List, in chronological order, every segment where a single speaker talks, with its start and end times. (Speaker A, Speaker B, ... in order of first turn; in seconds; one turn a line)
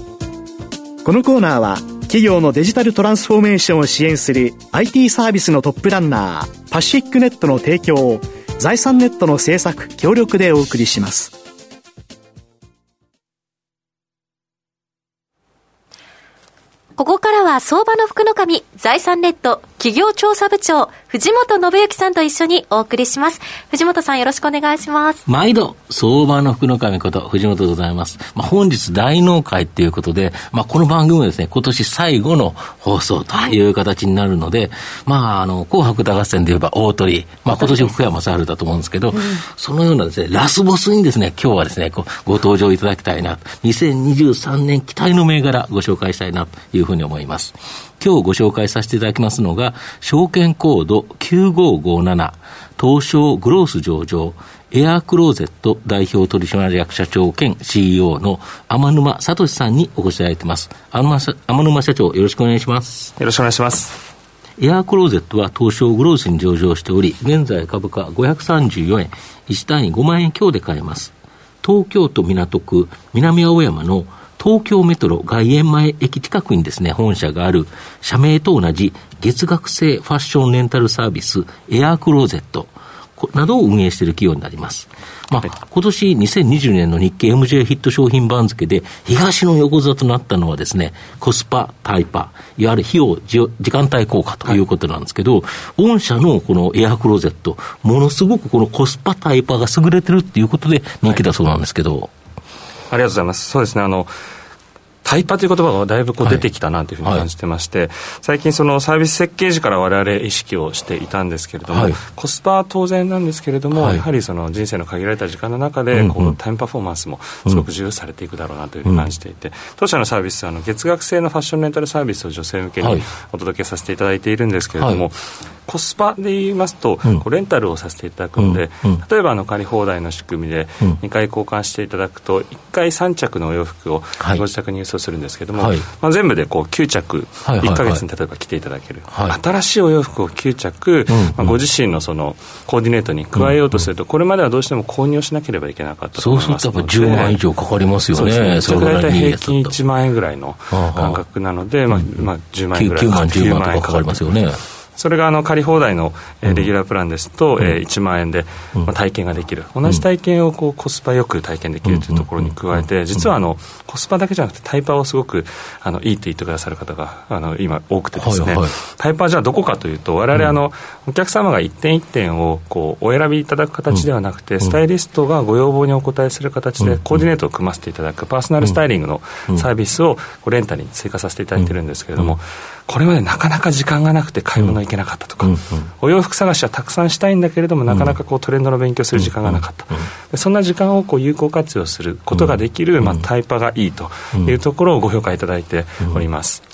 Speaker A: 1.0-11.3
Speaker B: 17.0-25.2
Speaker C: 25.2-63.1
Speaker D: 63.2-64.0
Speaker C: 64.6-102.1
Speaker D: 102.9-104.1
Speaker D: 105.0-147.4
Speaker C: 106.2-106.5
Speaker C: 107.0-107.3
Speaker C: 111.7-112.0
Speaker C: 113.7-114.0
Speaker C: 115.9-116.4
Speaker C: 122.8-123.1
Speaker C: 124.8-125.0
Speaker C: 128.4-129.0
Speaker C: 135.6-135.9
Speaker C: 137.4-138.0
Speaker C: 139.1-139.4
Speaker C: 141.1-141.6
Speaker C: 143.3-143.8
Speaker C: 146.2-149.8
Speaker D: 148.1-154.4
Speaker C: 150.7-151.2
Speaker C: 151.9-154.6
Speaker D: 154.9-196.6
Speaker C: 161.8-162.8
Speaker C: 168.1-168.7
Speaker C: 176.8-177.2
Speaker C: 181.6-182.3
Speaker C: 185.4-185.9
Speaker C: 187.9-188.2
Speaker C: 189.1-190.1
Speaker C: 192.3-193.2